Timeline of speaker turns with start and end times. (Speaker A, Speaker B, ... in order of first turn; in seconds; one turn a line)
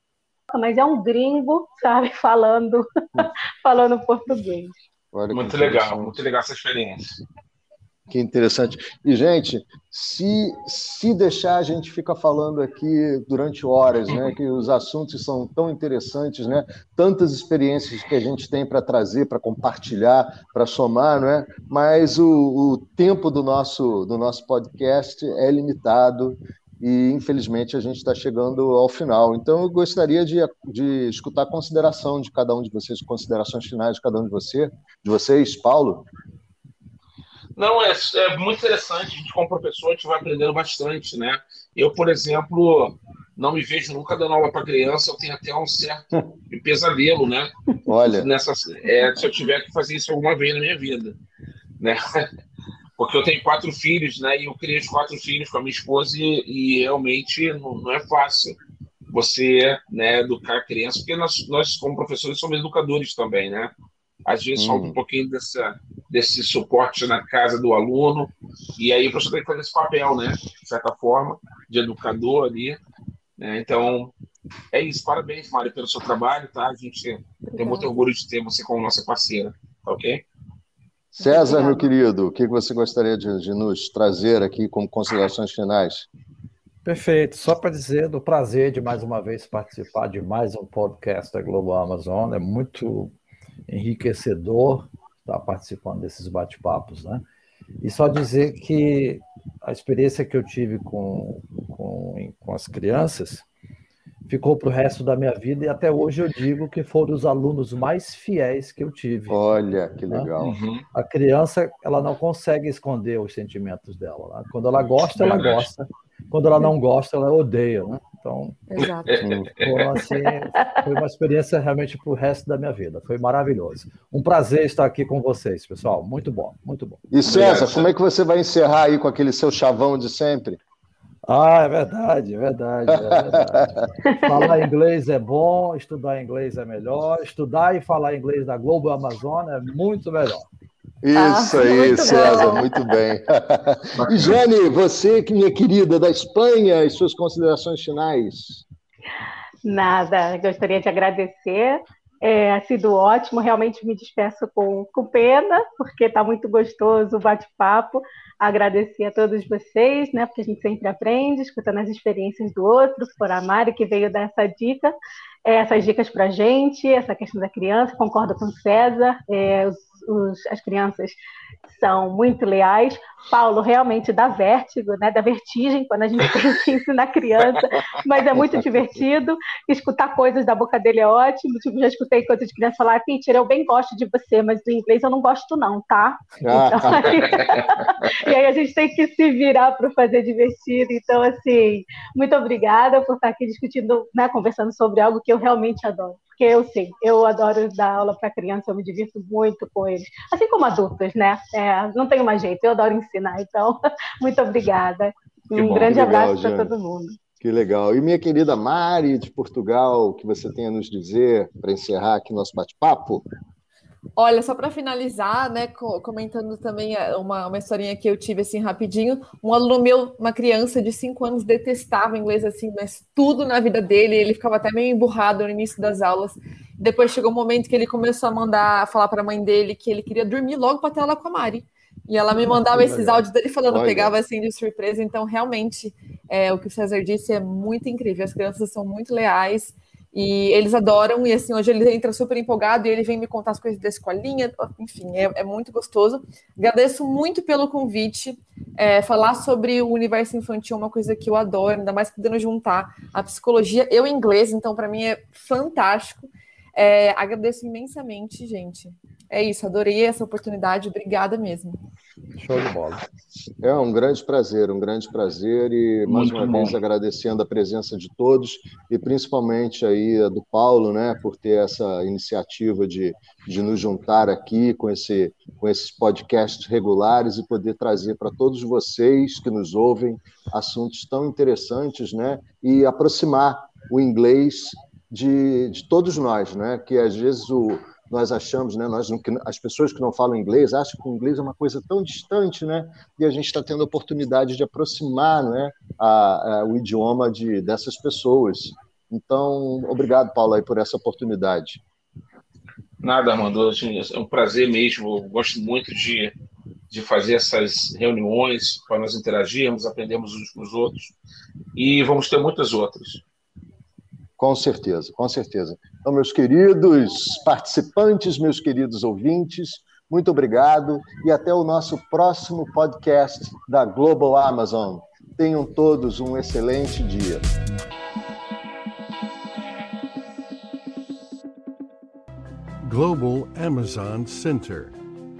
Speaker A: 0.5-4.8
Speaker B: 5.1-6.2
Speaker C: 5.3-7.2
Speaker B: 8.1-36.1
Speaker C: 37.5-47.5
Speaker B: 47.8-48.3
Speaker C: 48.0-51.1
Speaker C: 51.8-52.3
Speaker C: 53.0-58.6
Speaker C: 59.1-63.7
Speaker C: 64.2-72.8
Speaker B: 64.5-65.0
Speaker C: 73.4-74.1
Speaker C: 74.7-80.2
Speaker A: 77.6-77.8
Speaker B: 81.1-86.1
Speaker A: 81.2-81.8
Speaker D: 86.8-93.1
Speaker D: 93.7-97.2
Speaker D: 97.8-103.5
Speaker D: 104.3-109.4
Speaker B: 109.3-110.6
Speaker C: 110.4-110.8
Speaker D: 110.9-118.6
Speaker C: 114.8-115.7
Speaker E: 118.7-119.2
Speaker C: 119.1-119.7
Speaker B: 119.2-119.5
Speaker D: 119.5-127.1
Speaker B: 127.1-130.6
Speaker C: 127.2-127.9
Speaker D: 131.2-140.5
Speaker B: 132.9-133.8
Speaker A: 134.1-134.6
Speaker B: 141.0-148.6
Speaker A: 141.1-142.7
Speaker C: 144.1-144.4
Speaker A: 149.6-164.9
Speaker A: 165.4-171.2
Speaker A: 171.7-207.2
Speaker B: 178.3-178.6
Speaker B: 186.4-187.7
Speaker C: 187.0-187.5
Speaker B: 205.5-206.7
Speaker B: 207.4-213.3
Speaker E: 214.2-261.8
Speaker D: 232.7-233.2
Speaker B: 233.7-234.1
Speaker D: 262.3-263.0
Speaker B: 263.6-301.8
Speaker C: 266.1-266.7
Speaker C: 303.0-306.3
Speaker C: 306.9-311.1
Speaker C: 311.8-313.2
Speaker B: 314.4-327.4
Speaker F: 332.8-335.0